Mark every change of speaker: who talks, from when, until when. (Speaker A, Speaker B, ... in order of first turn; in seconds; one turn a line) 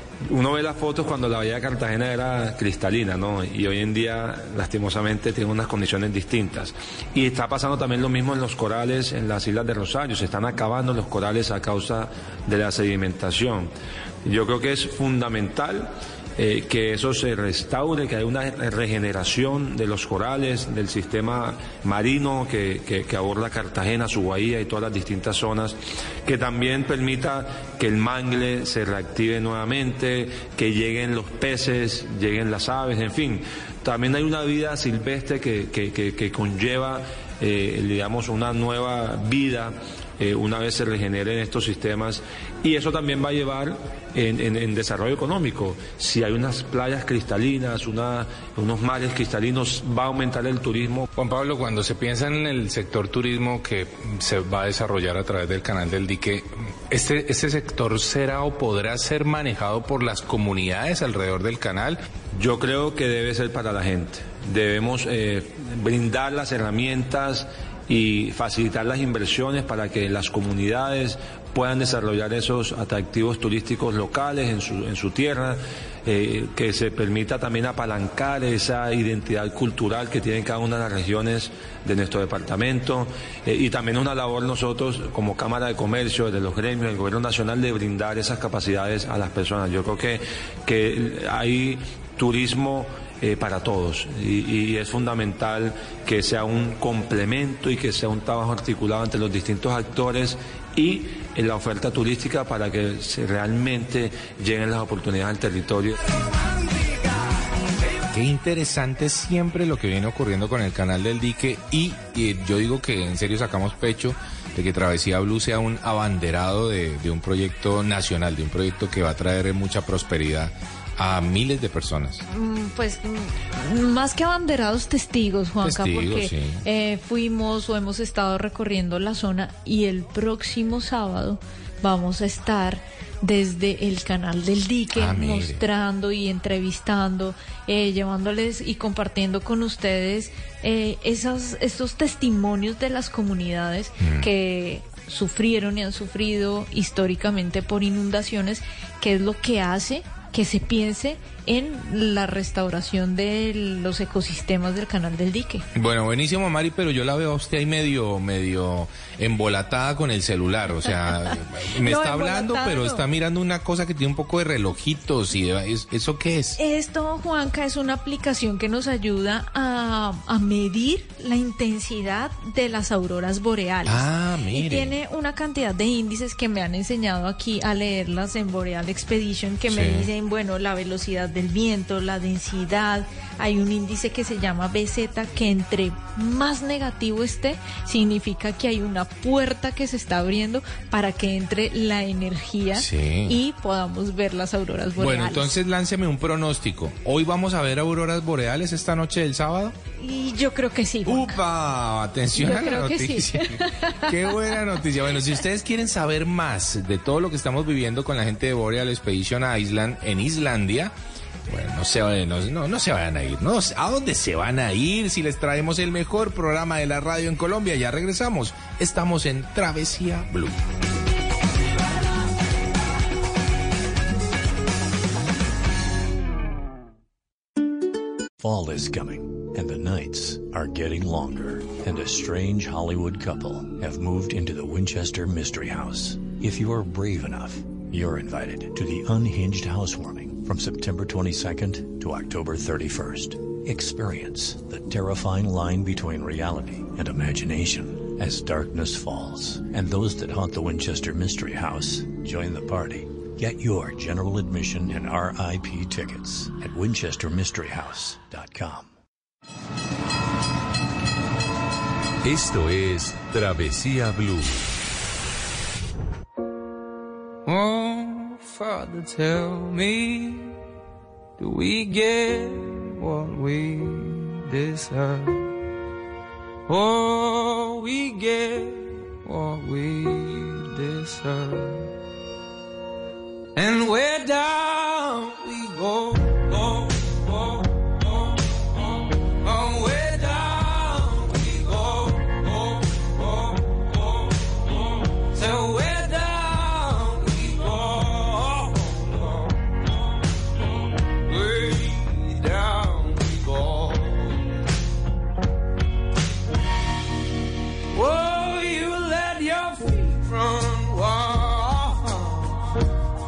Speaker A: 0.2-13.7
Speaker A: 14.2-51.0
Speaker B: 51.1-62.0
Speaker A: 62.3-106.0
Speaker B: 108.1-122.2
Speaker C: 122.3-155.6
Speaker B: 125.6-126.6
Speaker B: 134.9-135.6
Speaker B: 144.0-144.3
Speaker B: 155.7-166.6
Speaker C: 161.3-163.0
Speaker C: 166.6-195.5
Speaker B: 173.8-174.9
Speaker B: 179.7-180.1
Speaker B: 192.8-193.4
Speaker B: 195.0-199.7
Speaker C: 200.0-201.4
Speaker B: 201.1-210.9
Speaker C: 202.4-204.6
Speaker B: 211.5-220.6
Speaker D: 228.4-258.9
Speaker E: 262.2-264.6
Speaker F: 267.4-270.5
Speaker F: 271.4-275.5
Speaker F: 276.7-281.9
Speaker F: 283.6-299.8
Speaker F: 300.6-304.4
Speaker F: 307.9-312.6